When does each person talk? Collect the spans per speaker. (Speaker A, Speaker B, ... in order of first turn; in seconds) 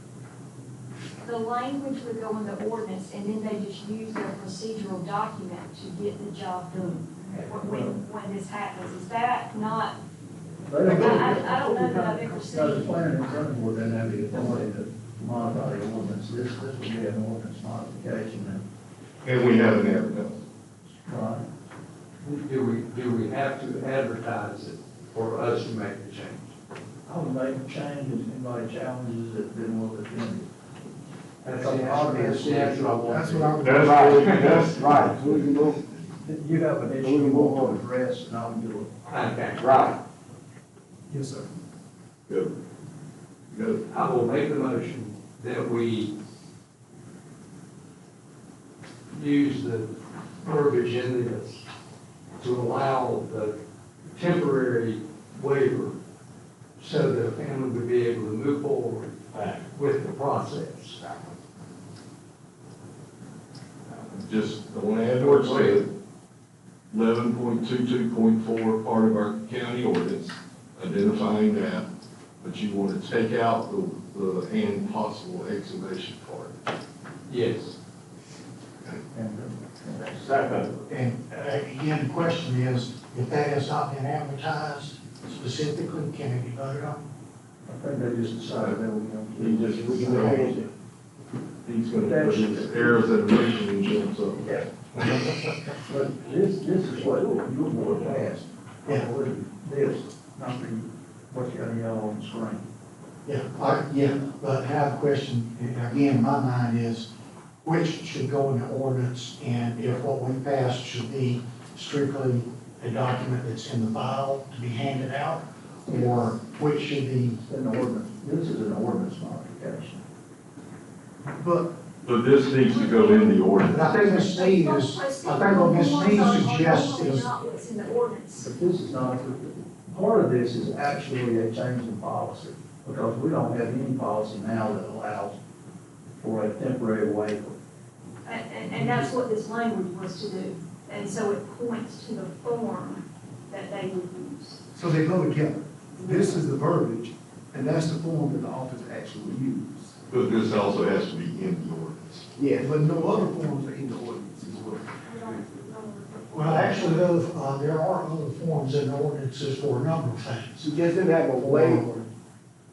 Speaker A: 1.2-10.0, 10.8-12.9, 122.7-128.5, 138.2-144.6, 146.0-146.4, 155.0-157.3
Speaker B: 7.3-8.0, 10.7-18.6, 21.0-21.5, 27.1-30.5, 31.4-33.4, 36.2-38.9, 79.1-80.7, 87.7-90.5, 91.9-93.1, 94.4-94.7, 95.8-102.7, 115.9-116.3, 117.4-120.0, 128.4-135.4, 136.2-137.6
Speaker C: 19.2-20.4, 33.6-36.1, 42.3-42.5, 43.5-43.8, 59.3-59.6, 63.9-65.9, 66.9-71.9, 72.4-76.5, 89.4-90.7, 91.6-95.3, 122.0-124.0, 150.1-152.2
Speaker D: 22.2-26.5, 31.4-33.5, 34.3-34.6, 39.1-40.0, 43.9-46.1, 49.1-49.9, 50.4-51.6, 52.4-53.5, 54.1-56.0, 56.8-61.0, 65.2-65.8, 77.3-77.8
Speaker E: 33.0-34.2, 41.1-41.5, 121.4-121.7, 144.7-150.0, 152.5-155.5
Speaker F: 33.6-35.8, 37.0-37.8, 89.9-90.4, 152.4-152.7, 160.6-161.8
Speaker G: 80.9-87.0, 90.0-90.5, 103.2-107.1, 107.6-117.4, 123.7-127.3, 156.3-160.7, 161.3-162.1